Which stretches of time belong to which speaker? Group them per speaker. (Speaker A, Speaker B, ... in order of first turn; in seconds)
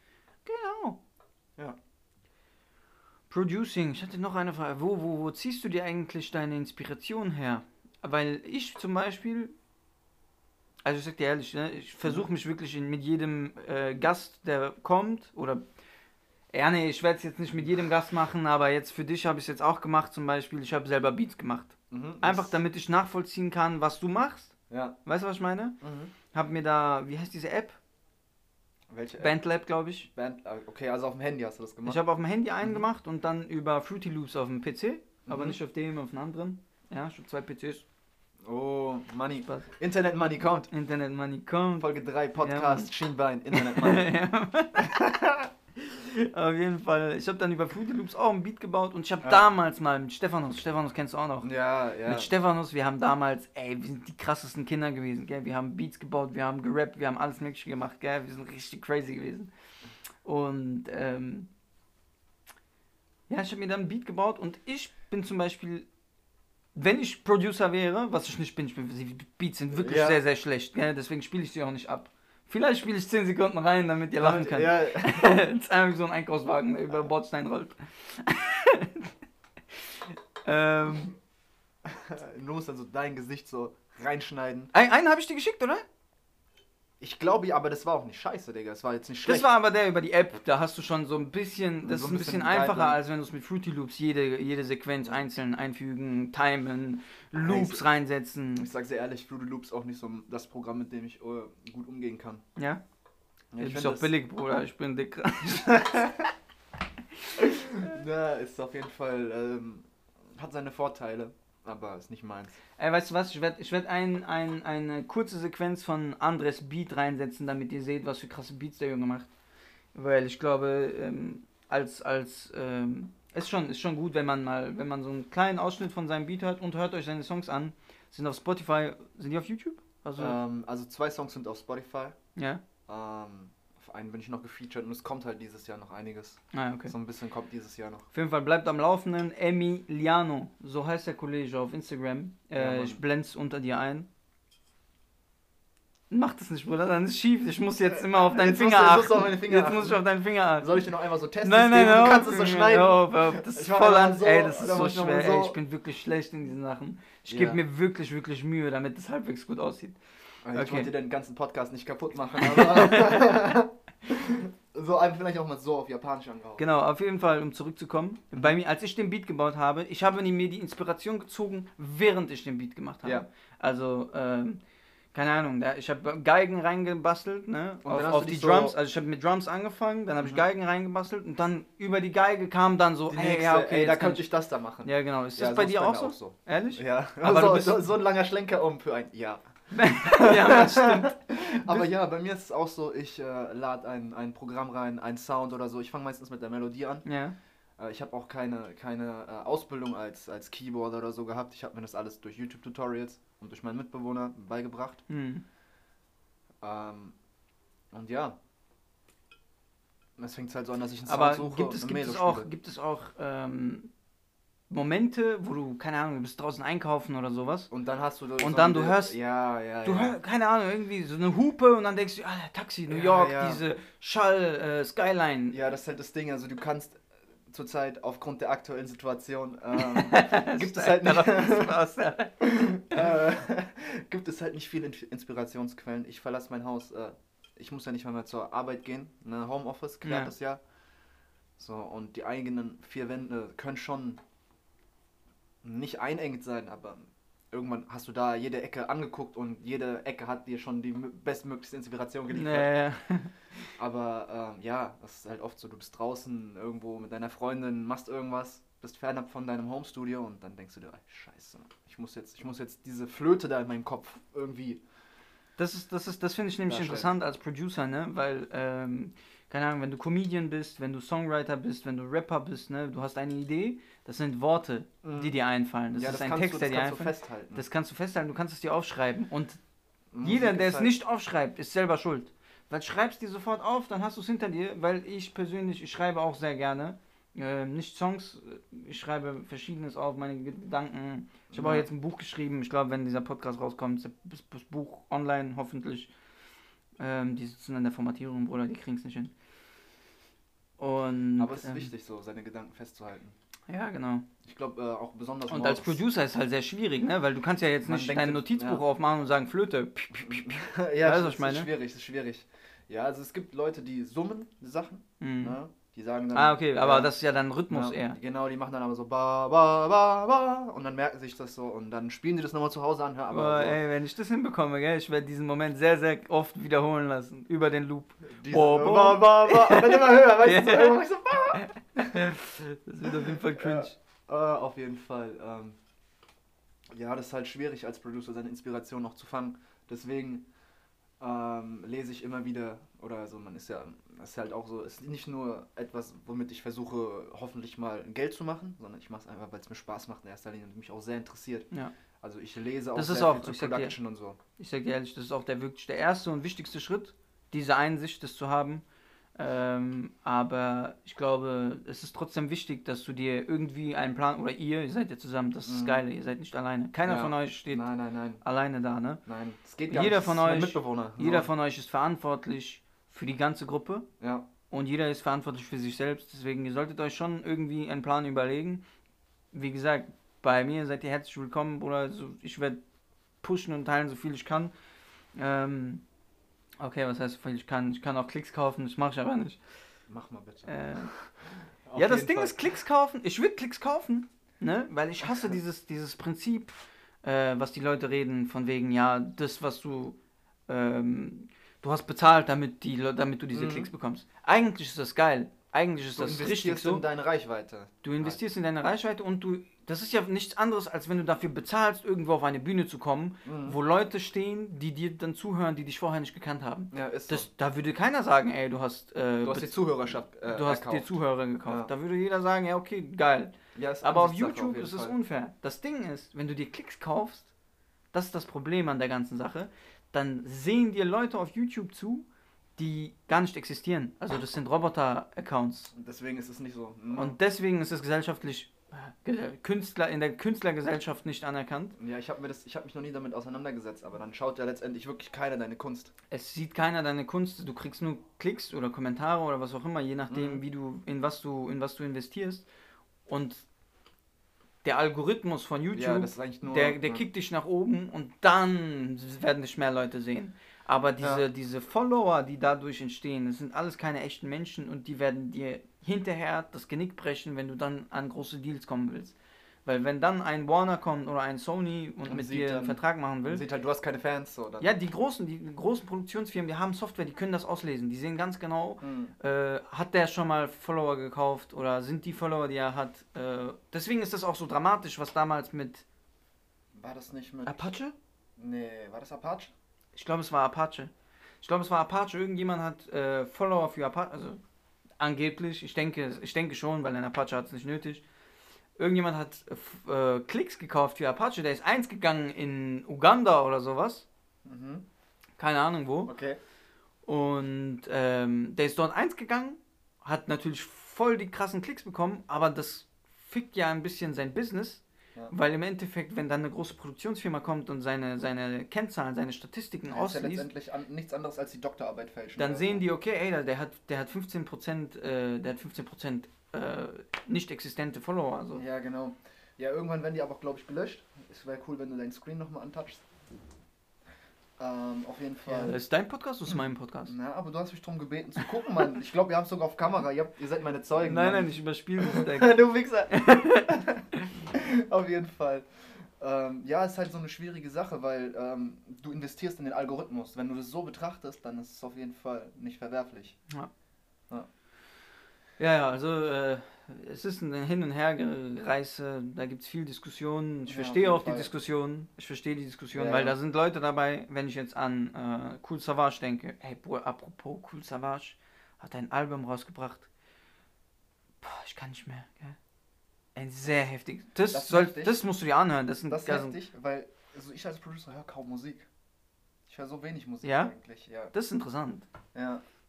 Speaker A: 0.5-1.0, 3.3-9.5, 10.8-15.6, 16.5-25.8, 26.3-27.8, 29.2-30.1, 31.9-37.9, 40.7-41.9, 42.4-42.9, 43.5-51.5, 52.1-59.5, 60.2-61.5, 63.3-65.9, 66.8-79.1, 80.4-81.2, 84.7-85.8, 89.2-98.7, 103.6-106.3, 112.8-119.3, 119.9-130.4, 132.4-132.6, 136.5-136.9, 138.1-144.1, 146.1-150.9, 151.4-160.0, 160.5-160.9, 162.4-163.3, 166.6-174.6, 175.1-184.3, 184.8-187.8, 189.7-191.9, 197.1-197.3, 205.1-205.4, 211.1-213.9, 214.7-217.7, 218.4-219.2, 219.8-225.6, 229.7-233.0, 240.0-240.3, 252.3-253.3, 265.6-279.6, 280.2-296.1, 297.0-299.3, 300.8-301.9, 303.7-304.3, 305.5-311.7, 315.2-315.6, 316.3-318.2, 323.3-331.0, 331.5-333.9, 352.9-353.9, 354.6-358.8, 359.4-367.9, 368.4-369.2, 369.9-374.1, 374.7-378.8, 379.5-382.8, 383.4-384.7, 385.4-386.0, 386.8-389.6, 390.7-391.1, 391.9-400.2, 400.7-407.0, 408.0-427.5, 428.1-432.3, 432.8-435.9, 437.1-442.0, 446.3-452.7, 453.3-453.6, 454.8-473.6, 474.8-486.1, 487.7-488.1, 490.2-491.1, 491.6-494.6, 495.2-498.2, 499.0-504.3, 505.6-506.3, 507.3-520.7, 522.6-528.8, 535.7-537.3, 541.2-544.5, 555.8-570.3, 571.6-572.8, 573.5-576.8, 580.6-580.9, 581.5-582.3
Speaker B: 21.9-22.6, 24.7-25.0, 25.8-26.1, 28.9-29.4, 30.1-32.0, 35.3-35.6, 38.4-40.7, 41.8-44.1, 44.8-45.5, 51.4-52.3, 69.7-70.2, 74.2-75.4, 81.8-84.7, 87.0-89.5, 91.8-93.0, 97.4-97.8, 98.6-102.4, 103.5-104.1, 107.4-112.6, 130.2-132.2, 132.9-138.1, 142.6-143.0, 147.9-150.1, 150.6-155.6, 157.3-157.6, 160.4-166.7, 177.8-178.8, 180.2-180.4, 183.1-189.4, 190.0-197.1, 197.8-205.0, 206.6-207.2, 207.9-208.4, 210.2-212.5, 217.7-220.2, 222.9-223.6, 225.5-231.8, 232.4-240.6, 241.6-244.2, 245.6-252.8, 253.8-264.8, 266.7-267.1, 275.0-275.3, 275.9-277.6, 280.1-281.0, 291.5-291.9, 301.4-303.4, 304.4-306.0, 307.9-308.8, 310.1-317.1, 317.7-323.8, 328.4-332.3, 333.0-335.8, 336.9-340.5, 341.2-351.7, 352.2-354.4, 365.6-366.0, 367.1-368.4, 369.3-371.5, 374.2-374.5, 390.1-391.3, 391.9-392.7, 395.2-395.5, 403.5-403.9, 406.1-408.4, 413.4-413.8, 416.9-417.5, 419.4-421.1, 423.8-425.1, 435.9-437.4, 442.0-446.1, 450.3-450.6, 455.9-457.3, 461.2-461.4, 472.2-474.9, 479.0-479.4, 486.9-487.9, 488.6-489.7, 504.6-505.1, 506.3-506.6, 520.1-523.0, 528.8-533.2, 534.8-536.0, 536.7-545.9, 546.4-553.6, 560.9-561.7, 563.1-563.5, 574.7-575.4, 576.3-579.1, 579.9-581.5, 582.5-582.8